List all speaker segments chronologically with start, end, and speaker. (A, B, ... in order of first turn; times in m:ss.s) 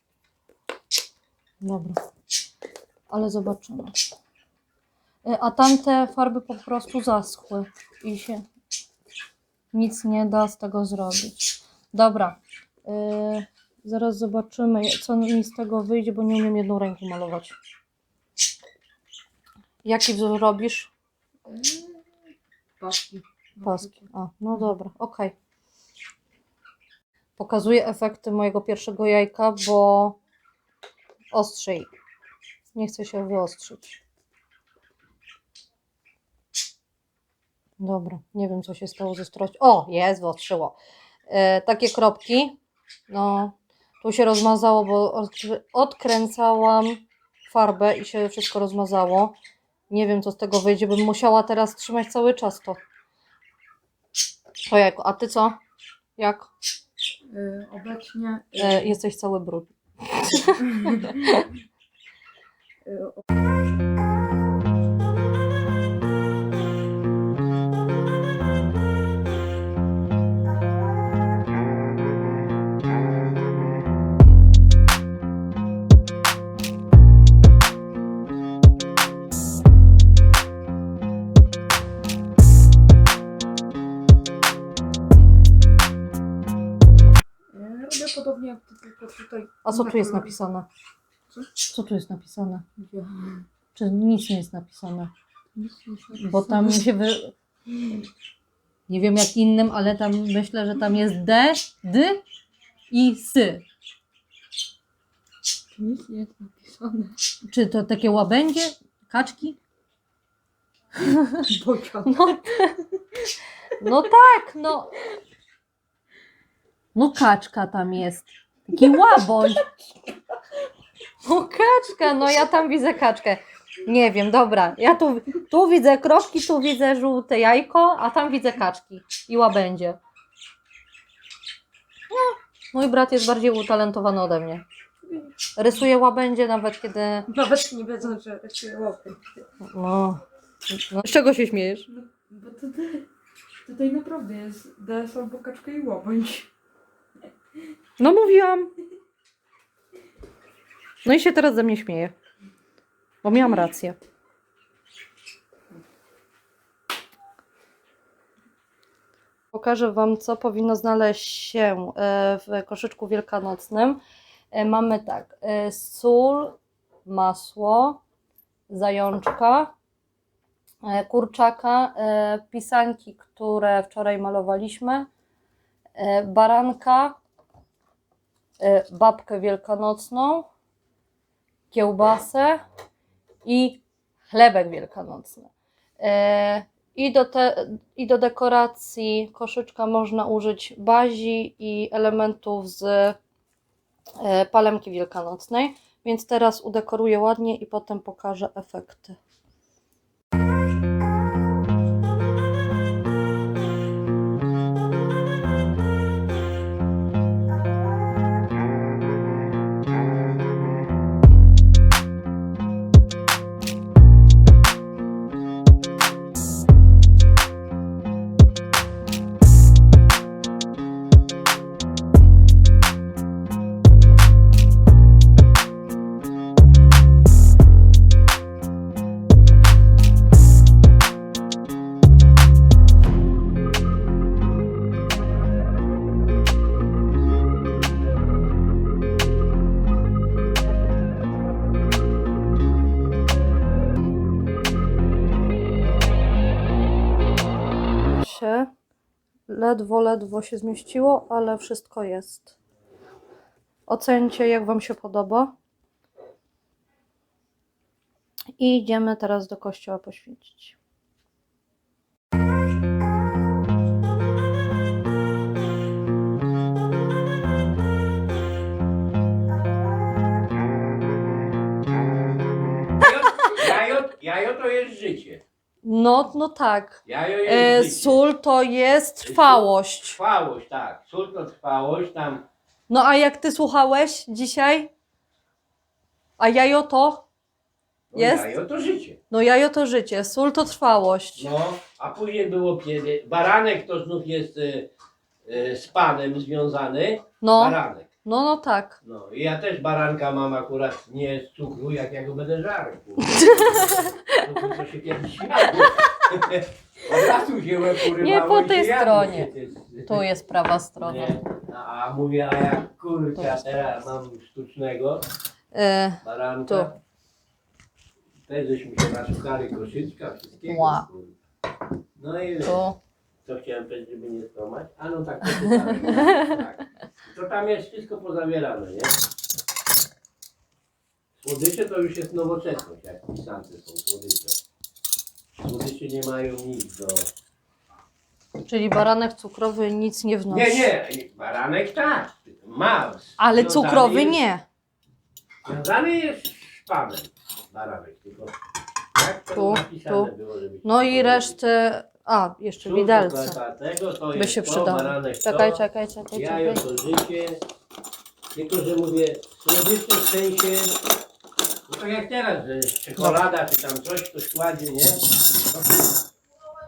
0:01.6-0:02.0 A
0:03.1-0:04.0 A
0:05.2-0:08.4 A
0:09.7-0:17.6 A
0:19.8-0:20.9 A
0:21.5-0:22.0 B
0:22.8-0:24.0 B
0:23.6-0:25.3 A
0:27.4-0:30.2 A
0:31.3-0:31.9 A
0:32.7-0:34.0 A
0:37.8-0:40.8 A
0:41.3-0:42.6 A
0:43.1-0:49.4 A
0:49.9-0:52.8 A
0:54.7-0:55.6 A
0:56.2-0:56.5 A
0:57.3-0:58.9 B
0:58.6-1:01.5 A
1:00.6-1:01.4 B
1:02.8-1:03.2 B
1:27.5-1:30.3 B
1:29.6-1:30.7 A
1:31.7-1:32.6 A
1:32.8-1:33.4 B
1:33.8-1:35.1 A
1:35.6-1:36.8 B
1:36.1-1:37.3 A
1:38.9-1:42.2 A
1:42.9-1:43.6 A
1:45.8-1:47.2 B
1:47.4-1:49.6 A
1:51.0-1:51.4 A
1:51.4-1:52.4 B
1:52.0-1:52.9 A
1:53.8-1:55.1 A
1:57.0-1:59.7 A
2:01.2-2:10.0 A
2:12.1-2:14.6 A
2:15.6-2:17.3 A
2:17.3-2:19.2 B
2:19.6-2:21.9 A
2:21.9-2:23.0 B
2:23.6-2:26.5 B
2:28.0-2:28.8 A
2:31.0-2:32.1 A
2:33.2-2:34.0 A
2:39.5-2:44.0 A
2:44.5-2:48.0 A
2:48.7-2:49.7 A
2:50.8-2:55.1 A
2:56.0-2:57.2 A
2:58.6-3:00.5 A
3:01.7-3:02.6 A
3:03.4-3:13.2 A
3:14.2-3:19.2 A
4:08.0-4:08.7 A
4:09.5-4:12.6 A
4:13.9-4:15.5 A
4:18.6-4:20.8 A
4:33.0-4:35.4 C
4:35.8-4:40.2 A
4:37.1-4:38.2 C
4:39.2-4:42.5 C
4:42.9-4:44.9 A
4:46.4-4:47.2 A
4:48.1-4:49.2 C
4:48.1-4:48.5 A
4:49.3-4:51.5 A
4:51.4-4:54.9 C
4:55.4-4:58.1 C
4:57.4-4:59.0 A
4:59.0-5:10.3 C
5:03.2-5:04.8 A
5:08.1-5:09.5 A
5:10.1-5:11.4 A
5:11.0-5:15.3 C
5:15.7-5:16.9 A
5:16.2-5:17.0 C
5:18.5-5:21.4 C
5:20.7-5:21.1 A
5:22.2-5:22.8 C
5:22.6-5:23.0 A
5:23.4-5:29.2 C
5:25.6-5:26.6 A
5:31.4-5:34.6 C
5:35.6-5:37.3 C
5:38.7-5:40.9 A
5:40.5-5:44.4 C
5:43.4-5:44.6 A
5:45.6-5:48.6 C
5:49.2-5:51.6 C
5:49.5-5:50.3 A
5:50.8-5:53.6 A
5:52.8-5:55.8 C
5:54.3-5:56.8 A
5:56.3-5:57.6 C
5:58.5-6:01.0 C
6:01.9-6:06.1 C